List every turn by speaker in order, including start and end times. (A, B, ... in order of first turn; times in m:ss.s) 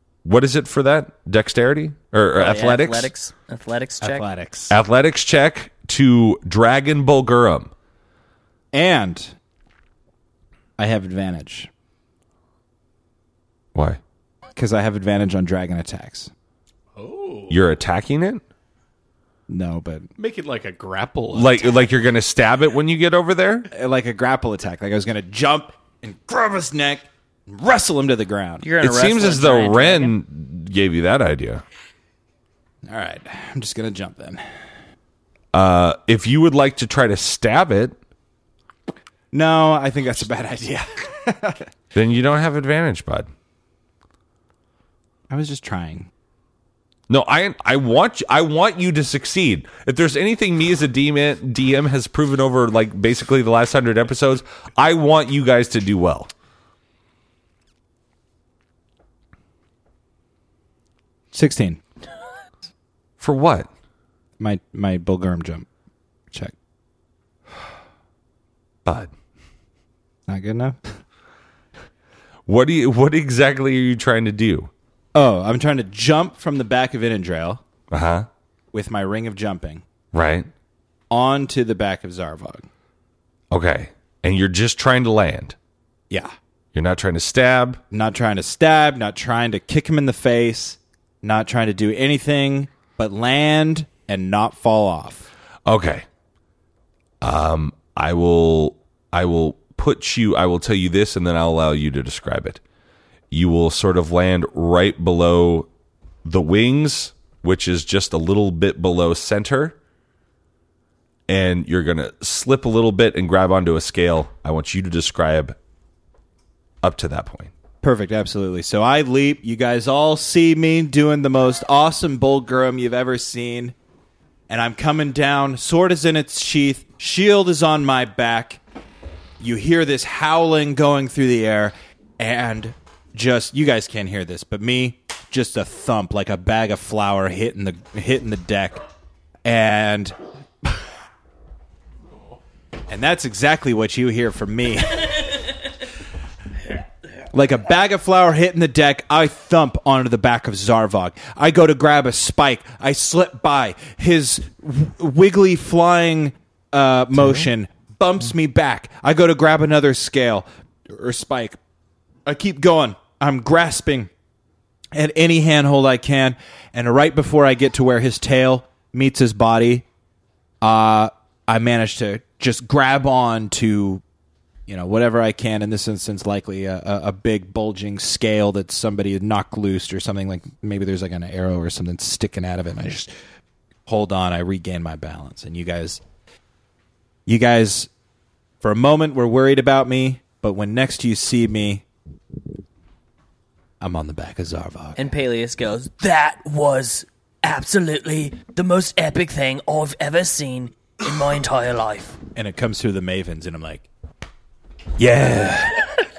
0:00.2-0:03.1 A
0:02.4-0:04.3 B
0:04.0-0:04.8 C
0:04.7-0:07.7 A
0:08.7-0:09.3 C
0:10.8-0:11.7 C
0:13.7-0:14.0 A
0:14.6-0:16.3 C
0:17.0-0:17.6 D
0:17.5-0:18.4 A
0:19.5-0:20.1 C
0:20.2-0:21.9 D
0:21.3-0:23.7 A
0:23.7-0:28.7 C
0:28.6-0:30.2 B
0:28.8-0:31.6 A
0:32.8-0:34.4 C
0:35.5-0:38.0 A
0:39.3-0:41.7 C
0:41.9-0:43.3 A
0:45.3-0:46.1 C
0:47.1-0:56.3 A
1:01.3-1:01.8 C
1:03.2-1:03.7 A
1:04.4-1:05.7 C
1:08.8-1:09.1 A
1:10.3-1:10.8 C
1:12.4-1:14.7 A
1:15.1-1:17.6 C
1:17.9-1:18.3 A
1:18.7-1:19.8 C
1:20.1-1:20.5 A
1:21.1-1:22.7 C
1:23.5-1:25.6 A
1:26.7-1:27.8 A
1:27.9-1:35.3 C
1:35.6-1:36.1 A
1:37.2-1:42.6 A
1:43.3-1:45.7 A
1:46.2-1:49.8 A
1:51.3-1:55.6 A
1:56.8-1:57.5 A
1:57.8-2:03.7 C
2:04.5-2:08.6 C
2:09.4-2:18.8 C
2:19.4-2:20.2 C
2:22.9-2:25.4 C
2:27.3-2:41.6 C
2:42.2-2:44.1 C
2:44.9-2:49.8 C
2:50.6-2:54.0 C
2:54.7-3:03.1 C
3:03.9-3:06.0 C
3:07.3-3:07.9 C
3:08.6-3:11.8 C
3:13.8-3:15.0 C
3:15.0-3:22.2 B
3:22.3-3:23.8 C
3:25.0-3:25.8 C